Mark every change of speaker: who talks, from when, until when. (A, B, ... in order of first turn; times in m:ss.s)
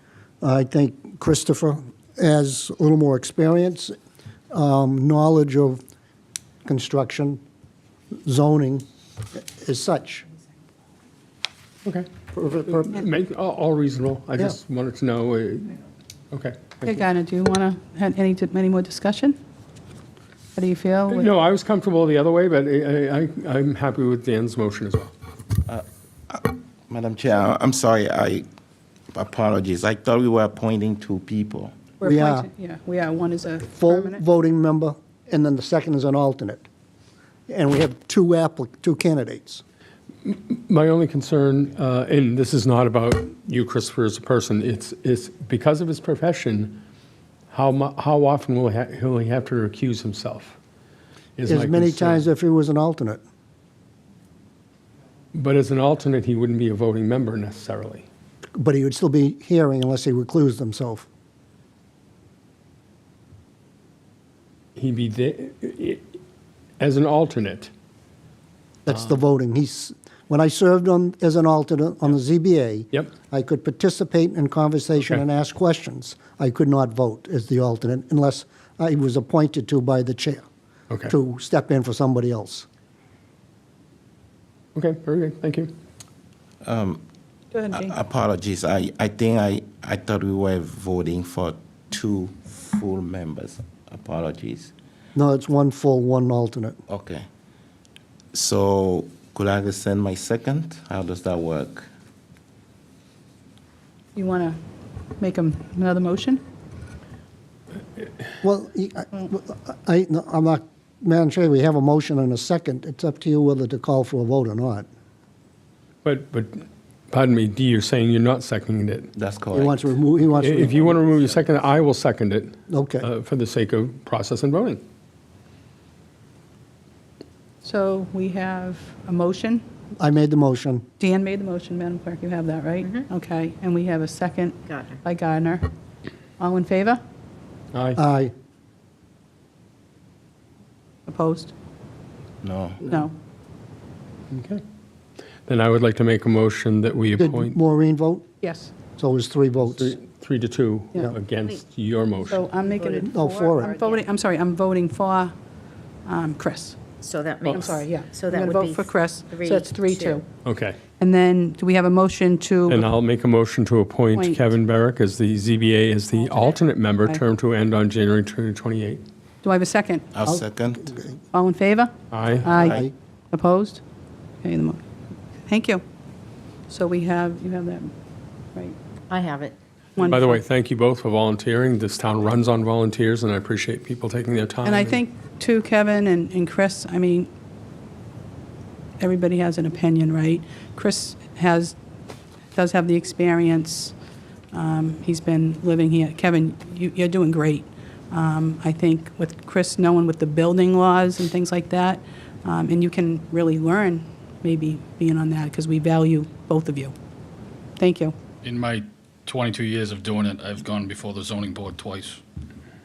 0:00.4-0:03.9 A
0:04.5-0:05.8 A
0:06.6-0:07.4 A
0:08.2-0:08.8 A
0:09.4-0:10.2 A
0:12.3-0:13.0 A
0:12.7-0:15.8 B
0:16.3-0:17.0 B
0:16.8-0:19.4 C
0:20.5-0:21.3 C
0:21.1-0:25.1 B
0:25.6-0:28.5 D
0:29.1-0:31.7 D
0:32.0-0:33.9 C
0:32.0-0:32.5 A
0:33.6-0:36.7 A
0:37.5-0:39.6 A
0:40.2-0:46.8 B
0:47.5-0:50.6 B
0:51.4-0:52.3 B
0:51.4-0:53.2 A
0:55.3-0:58.0 B
0:58.6-1:01.1 A
1:04.8-1:06.2 B
1:06.8-1:07.7 B
1:08.8-1:20.4 A
1:21.0-1:22.6 A
1:24.7-1:25.7 B
1:26.6-1:27.0 D
1:27.5-1:27.9 C
1:27.7-1:34.7 D
1:35.2-1:36.8 A
1:36.9-1:37.2 D
1:38.3-1:41.9 D
1:44.1-1:44.6 C
1:45.2-1:46.4 C
1:48.4-1:54.9 A
1:56.0-1:59.1 B
1:59.2-1:59.9 D
1:59.5-2:01.0 A
2:00.4-2:04.8 B
2:02.7-2:03.1 A
2:07.6-2:09.6 C
2:10.0-2:10.8 A
2:11.0-2:15.7 C
2:14.7-2:15.0 E
2:16.4-2:17.0 C
2:17.7-2:18.0 B
2:17.9-2:18.3 A
2:21.1-2:21.5 C
2:22.4-2:23.0 D
2:22.8-2:23.1 C
2:24.3-2:24.6 B
2:25.5-2:27.5 B
2:27.2-2:28.2 A
2:28.4-2:28.7 C
2:29.0-2:30.0 A
2:29.8-2:32.4 B
2:32.3-2:35.3 C
2:32.4-2:34.0 E
2:33.0-2:33.7 A
2:36.0-2:36.8 C
2:37.0-2:40.2 E
2:37.5-2:40.3 C
2:40.4-2:40.8 B
2:41.0-2:42.8 C
2:42.7-2:49.0 B
2:44.1-2:44.4 C
2:49.4-2:50.0 C
2:50.1-2:50.9 D
2:50.2-2:51.1 A
2:51.3-2:53.8 C
2:52.1-2:52.7 B
2:52.5-2:52.9 A
2:54.4-2:54.8 C
2:55.4-2:55.8 C
2:56.7-2:57.9 C
2:59.1-2:59.6 E
3:00.0-3:00.4 C
3:00.0-3:05.0 B
3:04.6-3:07.3 C
3:09.0-3:11.7 C
3:12.5-3:13.9 C
3:14.5-3:26.9 C
3:27.8-3:28.1 C
3:28.4-3:32.2 F